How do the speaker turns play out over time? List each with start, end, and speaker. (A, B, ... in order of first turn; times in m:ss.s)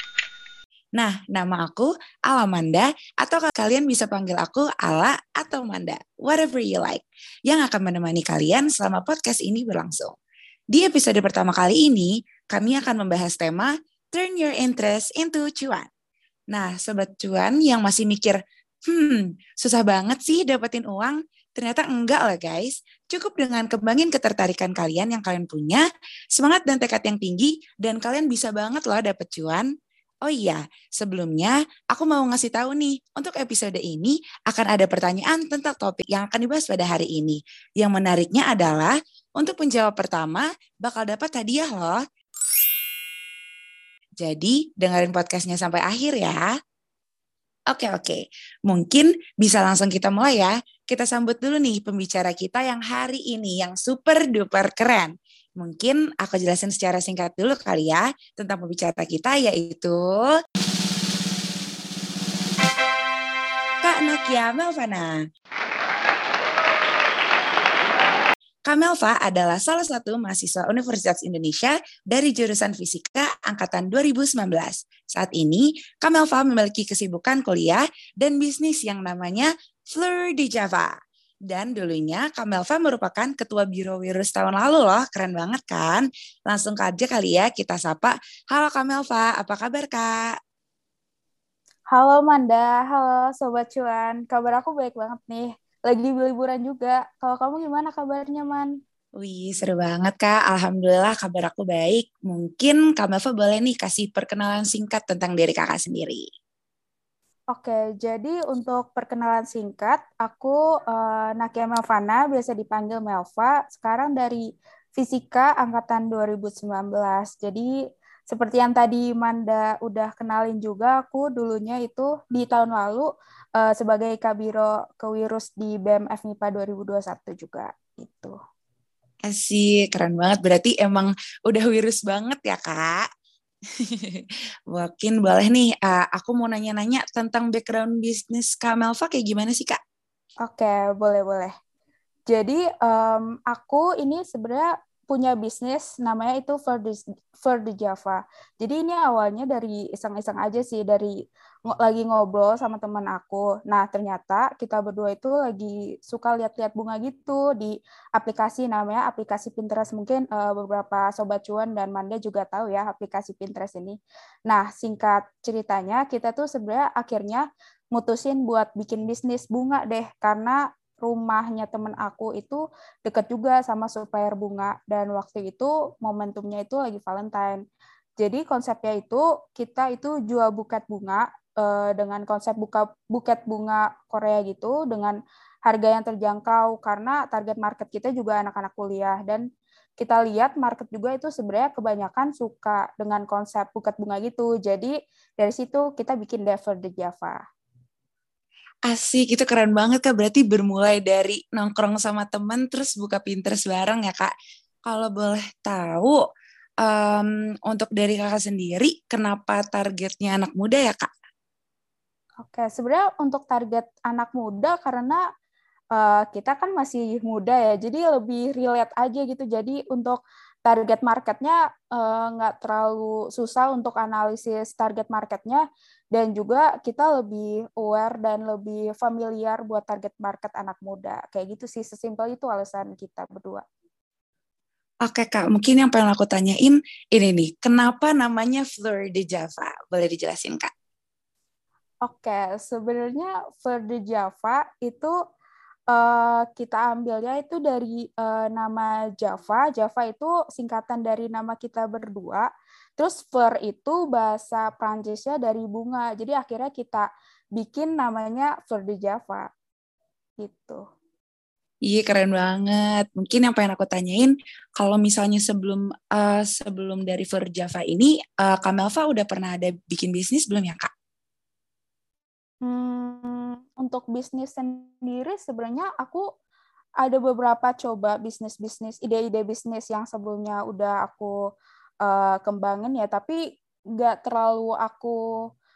0:01.0-0:10.2 A
0:10.7-0:15.9 A
0:16.5-0:25.8 A
0:26.4-0:29.7 A
0:30.2-0:42.0 A
0:44.2-0:46.5 A
0:47.7-1:00.4 A
1:03.8-1:05.2 A
1:08.7-1:21.0 A
1:21.5-1:30.3 A
1:31.9-1:38.8 B
1:39.2-1:46.3 A
1:47.5-1:54.4 B
1:55.0-1:57.7 B
1:58.3-2:08.4 B
2:09.3-2:13.1 A
2:13.8-2:19.8 A
2:20.4-2:21.5 B
2:22.3-2:31.2 B
2:31.7-2:57.6 B
2:58.2-3:09.4 B
3:10.0-3:17.4 B
3:18.9-3:24.3 A
3:24.9-3:26.2 A
3:26.8-3:31.1 A
3:32.4-3:35.2 B
3:35.9-3:53.6 B
3:55.1-4:00.7 A
4:02.0-4:05.2 B
4:05.9-4:19.5 B
4:20.4-4:20.8 B
4:21.9-4:30.9 A
4:32.6-4:36.3 B
4:37.0-4:41.4 B
4:42.0-4:43.4 B
4:44.0-4:45.2 B